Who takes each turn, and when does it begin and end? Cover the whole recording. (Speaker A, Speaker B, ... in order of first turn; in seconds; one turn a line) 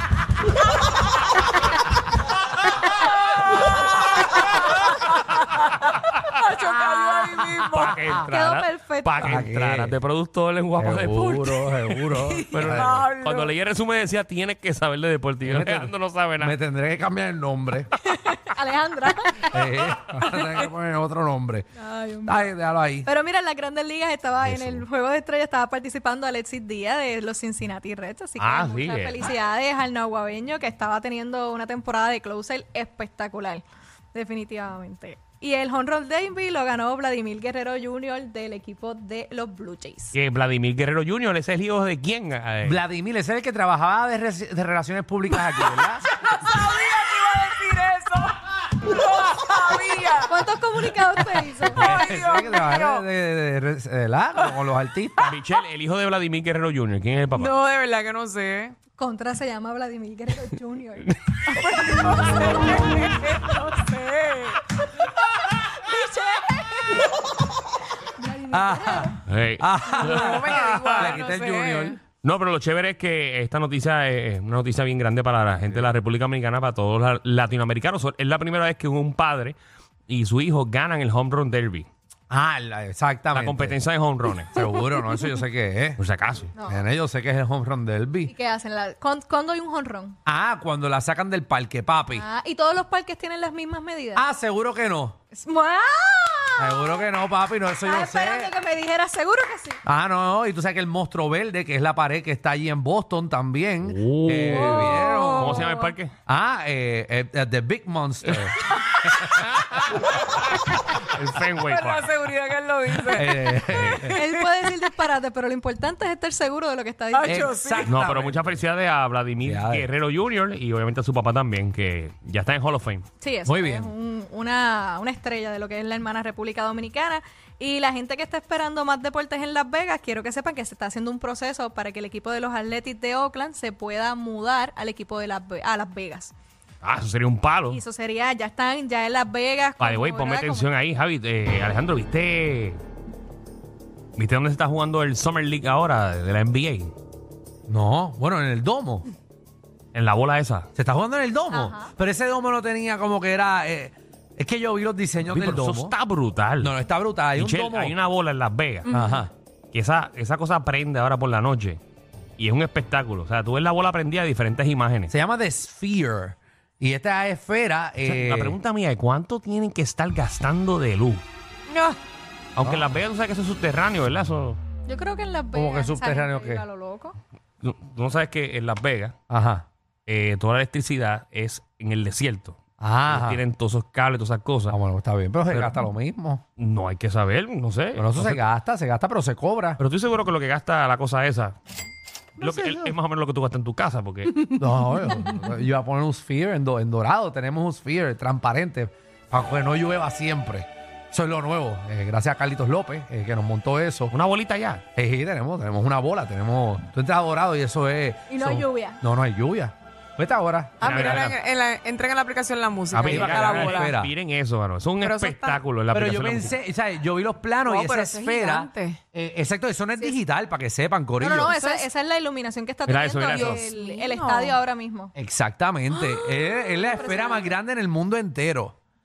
Speaker A: 6.4-7.9
Speaker B: 7.4-8.1
Speaker C: 7.7-11.9
Speaker D: 8.2-9.5
Speaker B: 9.2-10.0
Speaker B: 10.8-13.1
Speaker C: 12.5-16.6
Speaker A: 12.8-13.5
Speaker B: 15.4-17.9
Speaker D: 18.1-20.0
Speaker B: 19.5-21.7
Speaker D: 21.8-22.5
Speaker B: 22.2-23.1
Speaker D: 23.0-40.2
Speaker B: 24.4-24.8
Speaker C: 28.4-29.2
Speaker C: 40.1-42.8
Speaker B: 42.6-46.0
Speaker A: 46.2-50.4
Speaker D: 50.3-52.1
Speaker B: 51.8-55.4
Speaker A: 51.8-53.0
Speaker C: 55.2-57.6
Speaker A: 57.4-58.8
Speaker D: 59.0-61.1
Speaker A: 61.5-64.6
Speaker D: 65.5-67.2
Speaker D: 68.0-69.2
Speaker B: 68.5-72.0
Speaker C: 69.3-71.2
Speaker A: 70.1-72.0
Speaker C: 72.2-79.6
Speaker C: 80.1-81.9
Speaker B: 82.3-83.8
Speaker C: 83.3-84.7
Speaker B: 84.5-86.0
Speaker C: 86.0-86.5
Speaker D: 86.6-86.8
Speaker B: 86.6-88.3
Speaker D: 88.3-90.2
Speaker B: 90.3-92.3
Speaker D: 92.1-94.2
Speaker B: 94.2-95.2
Speaker D: 95.3-97.0
Speaker B: 96.6-98.5
Speaker D: 97.8-99.8
Speaker B: 99.9-105.7
Speaker C: 103.8-106.1
Speaker D: 104.6-105.9
Speaker B: 106.3-109.3
Speaker C: 109.4-110.1
Speaker C: 110.8-112.2
Speaker A: 111.6-113.6
Speaker B: 113.1-114.2
Speaker C: 113.7-114.2
Speaker D: 114.1-117.6
Speaker A: 117.1-117.9
Speaker B: 117.2-118.6
Speaker C: 117.9-123.0
Speaker B: 119.4-119.9
Speaker D: 123.2-136.3
Speaker B: 123.5-123.9
Speaker C: 136.8-137.8
Speaker D: 137.7-140.7
Speaker C: 139.8-142.8
Speaker C: 144.2-146.9
Speaker B: 147.7-149.1
Speaker C: 149.9-150.7
Speaker B: 150.8-155.9
Speaker D: 151.5-151.9
Speaker C: 155.3-156.7
Speaker B: 156.6-157.9
Speaker C: 157.4-158.9
Speaker B: 158.9-159.3
Speaker C: 159.7-161.8
Speaker C: 162.4-165.1
Speaker B: 165.1-168.6
Speaker C: 168.1-171.2
Speaker A: 171.7-172.0
Speaker C: 172.6-174.6
Speaker D: 174.9-177.2
Speaker B: 175.5-176.7
Speaker C: 177.6-179.2
Speaker B: 179.3-179.7
Speaker C: 180.1-184.8
Speaker B: 182.8-183.4
Speaker B: 184.7-186.4
Speaker C: 185.5-185.8
Speaker C: 186.6-188.4
Speaker B: 188.0-189.8
Speaker C: 189.8-191.6
Speaker C: 192.4-194.6
Speaker B: 192.4-192.9
Speaker B: 194.5-204.1
Speaker C: 204.1-204.8
Speaker B: 205.0-211.2
Speaker D: 208.3-209.0
Speaker A: 210.8-213.9
Speaker C: 210.8-211.4
Speaker C: 212.9-216.6
Speaker B: 212.9-214.1
Speaker A: 215.0-215.6
Speaker B: 215.9-221.5
Speaker A: 217.6-219.0
Speaker D: 221.2-225.1
Speaker A: 221.5-221.9
Speaker C: 222.9-223.7
Speaker A: 223.3-224.6
Speaker B: 225.2-228.8